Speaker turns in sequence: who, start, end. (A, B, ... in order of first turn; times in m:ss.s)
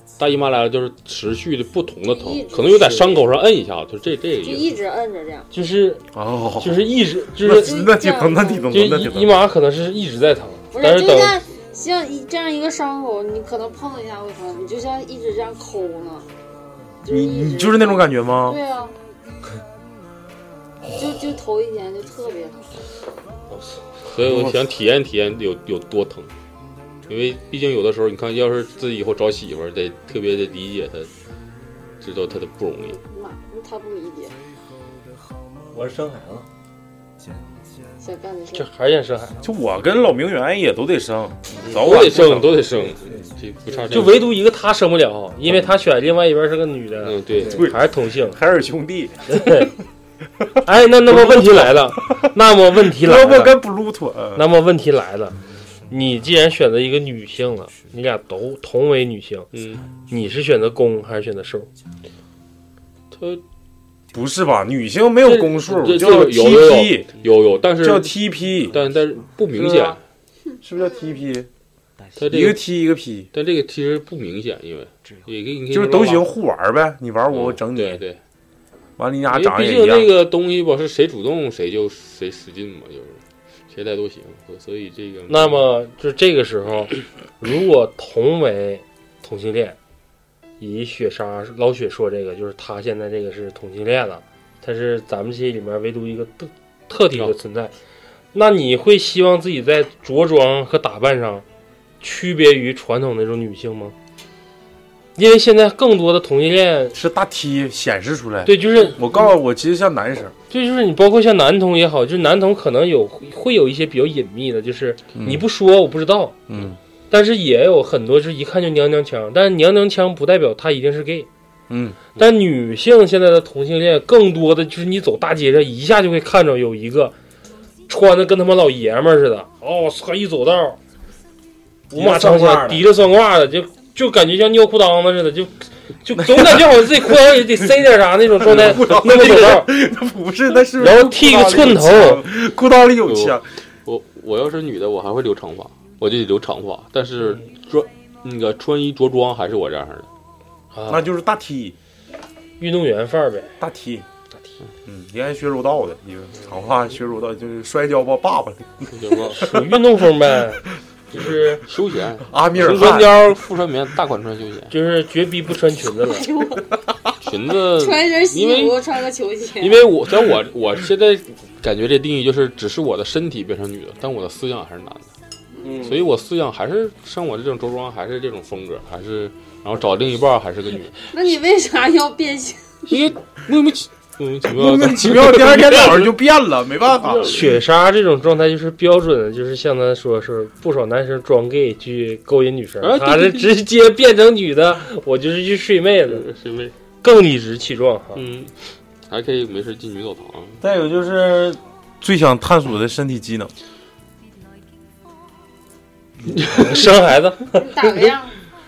0:00.2-0:04.8 A
0:02.1-0:03.3 B
0:04.4-0:05.5 B
0:05.5-0:06.0 C
0:06.1-0:09.4 D
0:06.6-0:07.8 C
0:07.5-0:08.8 B
0:08.7-0:11.3 C
0:10.7-0:16.3 B
0:17.0-0:18.9 B
0:17.1-0:18.6 D
0:21.0-0:22.7 B
0:23.5-0:23.8 C
0:24.1-0:26.3 A
0:24.2-0:24.6 D
0:27.1-0:31.1 A
0:32.0-0:33.0 A
0:32.8-0:34.4 B
0:35.7-0:36.5 E
0:38.0-0:38.7 B
0:38.5-0:39.4 C
0:39.4-0:42.6 D
0:41.6-0:44.3 A
0:42.9-0:44.2 E
0:43.9-0:48.4 C
0:47.0-0:47.6 A
0:47.3-0:47.7 E
0:47.4-0:49.7 D
0:49.3-0:49.7 C
0:50.6-0:53.5 C
0:51.0-0:52.3 D
0:52.9-0:54.4 D
0:54.4-0:55.4 C
0:55.9-0:59.5 C
0:59.5-0:59.8 A
1:00.1-1:01.7 C
1:03.1-1:03.4 A
1:04.1-1:07.1 D
1:05.2-1:10.0 A
1:07.8-1:08.8 D
1:09.6-1:10.0 D
1:10.6-1:11.5 D
1:12.2-1:12.7 A
1:12.2-1:13.3 D
1:13.3-1:16.3 A
1:15.7-1:18.0 D
1:17.3-1:18.2 A
1:19.0-1:20.1 D
1:19.3-1:25.6 A
1:25.3-1:29.8 C
1:30.6-1:37.7 C
1:38.3-1:41.4 C
1:42.0-1:43.9 C
1:45.2-1:47.0 C
1:46.9-1:50.3 D
1:48.4-1:49.0 C
1:50.5-1:56.4 C
1:55.1-1:55.4 D
1:56.5-1:56.8 D
1:57.1-2:01.3 C
2:01.7-2:02.0 D
2:02.2-2:07.1 C
2:07.9-2:10.8 C
2:11.9-2:12.9 E
2:11.9-2:19.7 C
2:16.1-2:17.4 D
2:18.4-2:23.5 D
2:20.8-2:22.2 C
2:23.0-2:30.1 A
2:30.7-2:31.0 C
2:30.9-2:31.7 D
2:32.6-2:33.5 C
2:33.6-2:34.0 D
2:34.8-2:39.6 D
2:38.9-2:39.4 A
2:39.3-2:41.6 C
2:41.2-2:44.7 A
2:42.3-2:43.2 D
2:44.7-2:46.2 C
2:46.0-2:46.7 B
2:47.2-2:48.8 A
2:47.7-2:49.9 B
2:49.6-2:55.1 A
2:55.6-2:56.0 C
2:55.8-3:01.0 A
3:01.1-3:02.6 B
3:02.9-3:06.1 A
3:04.5-3:07.4 D
3:06.9-3:07.4 A
3:07.3-3:16.2 C
3:12.8-3:13.5 A
3:16.1-3:16.7 A
3:17.0-3:18.2 C
3:18.1-3:20.6 A
3:20.6-3:23.5 D
3:26.3-3:26.6 E
3:26.5-3:28.0 C
3:27.5-3:28.3 B